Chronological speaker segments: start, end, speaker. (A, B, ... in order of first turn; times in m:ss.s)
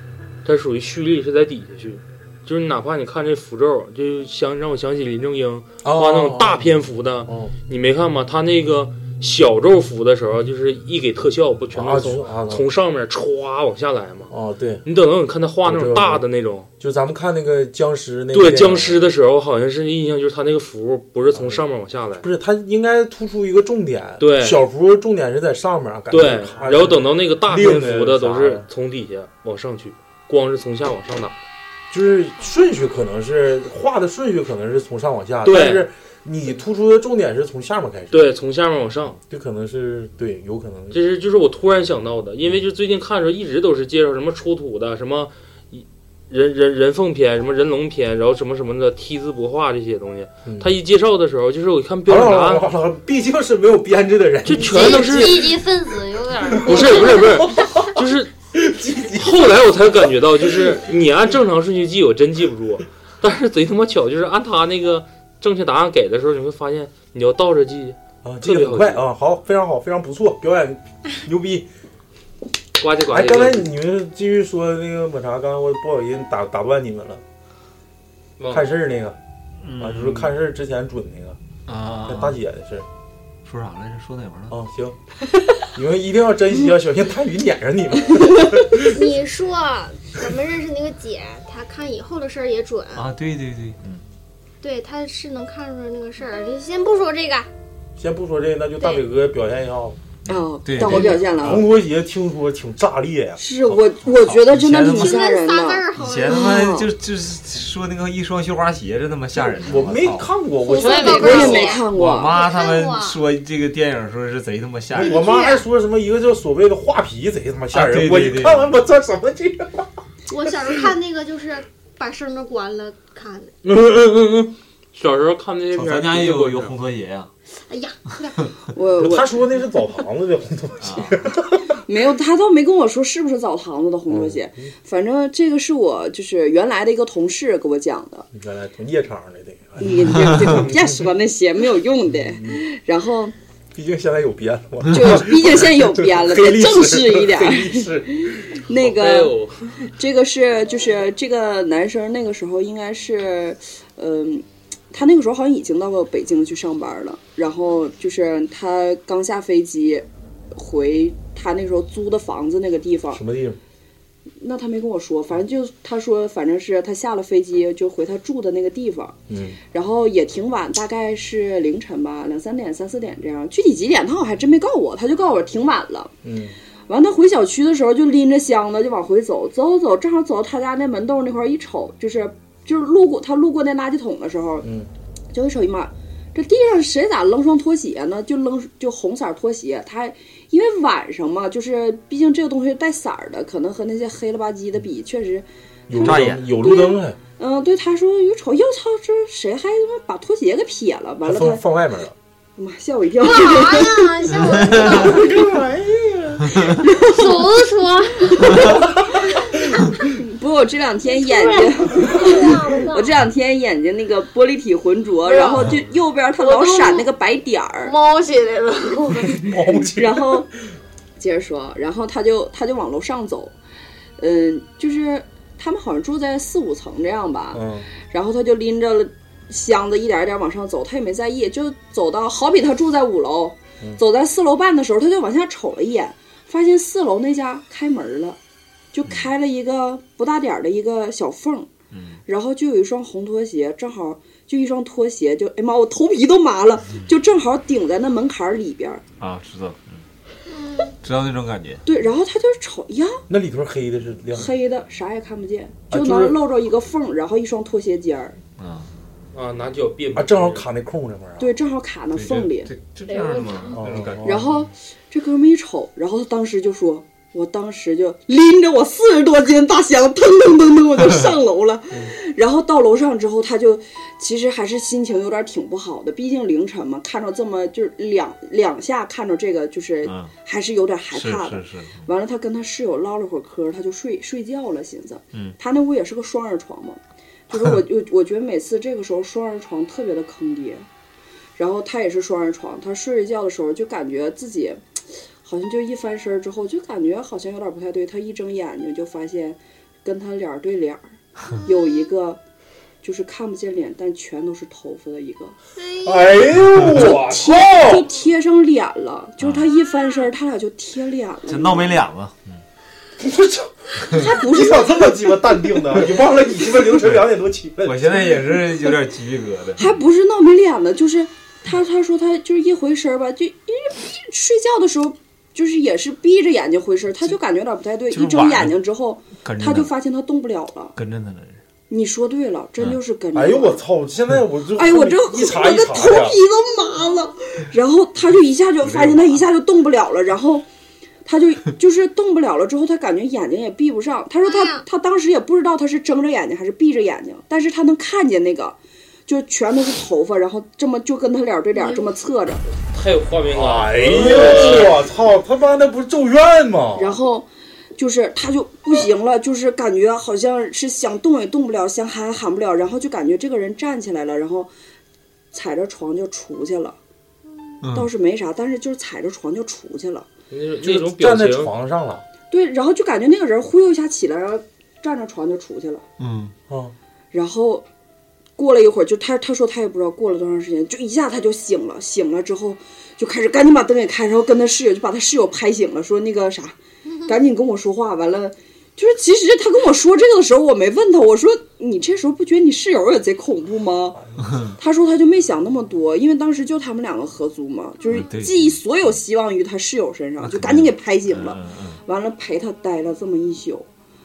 0:00.4-0:14.3 A
0:05.8-0:07.5 B
0:11.7-0:12.6 B
0:14.3-0:14.8 B
0:14.8-0:16.7 A
0:15.6-0:16.2 B
0:16.8-0:19.1 B
0:18.3-0:22.2 A
0:21.3-0:21.6 B
0:22.2-0:28.7 B
0:24.2-0:24.6 A
0:26.1-0:31.3 A
0:31.9-0:38.3 B
0:35.4-0:35.8 A
0:38.1-0:39.2 A
0:39.3-0:41.0 B
0:40.9-0:52.6 A
0:50.4-0:50.7 B
0:52.0-0:55.3 B
0:54.4-0:55.5 A
0:54.5-0:57.4 C
0:56.6-0:58.3 A
0:57.2-0:58.0 B
0:58.5-0:59.6 B
0:59.1-1:09.0 A
1:08.2-1:11.7 B
1:12.8-1:13.7 A
1:13.1-1:17.2 B
1:18.4-1:18.7 A
1:18.5-1:19.2 B
1:19.6-1:20.3 D
1:19.8-1:21.4 B
1:21.7-1:22.4 D
1:22.0-1:22.8 B
1:23.4-1:24.6 D
1:24.5-1:25.0 B
1:25.6-1:29.1 B
1:28.8-1:33.1 E
1:32.9-1:34.0 D
1:34.6-1:37.5 E
1:38.0-1:40.0 B
1:40.2-1:41.6 D
1:40.3-1:41.6 F
1:40.8-1:41.2 E
1:40.8-1:43.8 B
1:43.4-1:46.9 F
1:44.0-1:45.2 D
1:44.8-1:46.7 E
1:46.0-1:50.3 D
1:49.6-1:51.3 B
1:50.6-1:53.2 E
1:50.7-1:51.8 C
1:50.9-1:52.4 F
1:51.7-1:55.2 D
1:55.0-1:55.6 E
1:55.0-1:59.9 B
1:57.7-1:58.7 D
2:00.3-2:03.5 E
2:03.6-2:06.7 A
2:05.7-2:07.3 D
2:07.6-2:08.5 E
2:08.7-2:09.4 F
2:09.0-2:11.8 B
2:10.8-2:11.2 D
2:11.8-2:18.3 F
2:14.1-2:14.6 B
2:18.3-2:21.1 B
2:19.8-2:23.3 F
2:22.1-2:22.6 B
2:23.7-2:28.6 B
2:24.9-2:43.2 F
2:28.8-2:29.6 A
2:43.1-2:43.6 B
2:44.4-2:49.2 F
2:49.3-2:49.6 B
2:49.7-2:56.1 F
2:56.2-2:56.6 B
2:56.9-3:04.7 F
3:04.6-3:04.9 B
3:05.3-3:21.6 F
3:15.9-3:17.2 B
3:16.0-3:16.4 D
3:21.2-3:22.1 B
3:22.6-3:25.4 F
3:23.2-3:25.3 E
3:24.4-3:25.1 D
3:25.3-3:25.8 B
3:26.6-3:27.5 F
3:27.0-3:28.8 C
3:28.5-3:29.0 F
3:30.1-3:37.9 F
3:31.1-3:33.1 E
3:32.2-3:33.0 C
3:35.2-3:35.7 C
3:36.4-3:37.1 C
3:37.8-3:39.4 C
3:39.3-3:40.5 B
3:39.8-3:40.5 F
3:41.2-3:43.5 F
3:44.2-3:58.4 F
3:47.5-3:47.9 B
3:58.9-4:01.7 F
4:01.9-4:02.2 D
4:02.2-4:09.0 F
4:09.2-4:10.0 D
4:10.5-4:10.9 E
4:11.0-4:11.8 D
4:11.8-4:13.2 F
4:13.3-4:14.5 B
4:14.3-4:18.4 F
4:15.9-4:16.4 B
4:18.6-4:18.9 D
4:19.3-4:20.6 A
4:20.2-4:21.5 B
4:21.4-4:22.7 F
4:22.1-4:24.5 D
4:23.1-4:23.7 C
4:23.7-4:24.5 B
4:24.2-4:50.8 F
4:40.0-4:40.3 D
4:41.1-4:42.1 D
4:47.5-4:47.8 D
4:51.6-5:01.0 F
5:01.6-5:02.0 E
5:01.6-5:02.4 F
5:03.0-5:05.6 F
5:05.8-5:06.3 E
5:06.0-5:08.1 B
5:06.9-5:12.0 F
5:11.5-5:12.6 D
5:13.2-5:18.3 B
5:14.1-5:16.0 F
5:17.8-5:20.0 D
5:18.3-5:18.9 F
5:19.8-5:31.0 F
5:28.1-5:28.8 D
5:29.4-5:29.9 D
5:31.0-5:31.6 D
5:31.9-5:33.8 F
5:33.3-5:36.4 B
5:34.7-5:40.6 F
5:38.8-5:39.2 D
5:41.2-5:52.7 F
5:44.4-5:44.8 E
5:51.7-5:52.1 E
5:52.9-5:55.0 A
5:53.5-5:57.2 B
5:57.0-6:04.7 F
6:05.5-6:07.0 F
6:07.8-6:08.1 D
6:07.9-6:10.3 F
6:10.5-6:11.7 A
6:10.8-6:12.2 B
6:12.5-6:16.0 F
6:16.2-6:16.5 D
6:16.7-6:16.9 B
6:17.3-6:17.8 F
6:18.6-6:34.2 F
6:34.4-6:34.7 D
6:34.8-6:43.8 F
6:38.1-6:39.2 D
6:40.4-6:42.0 D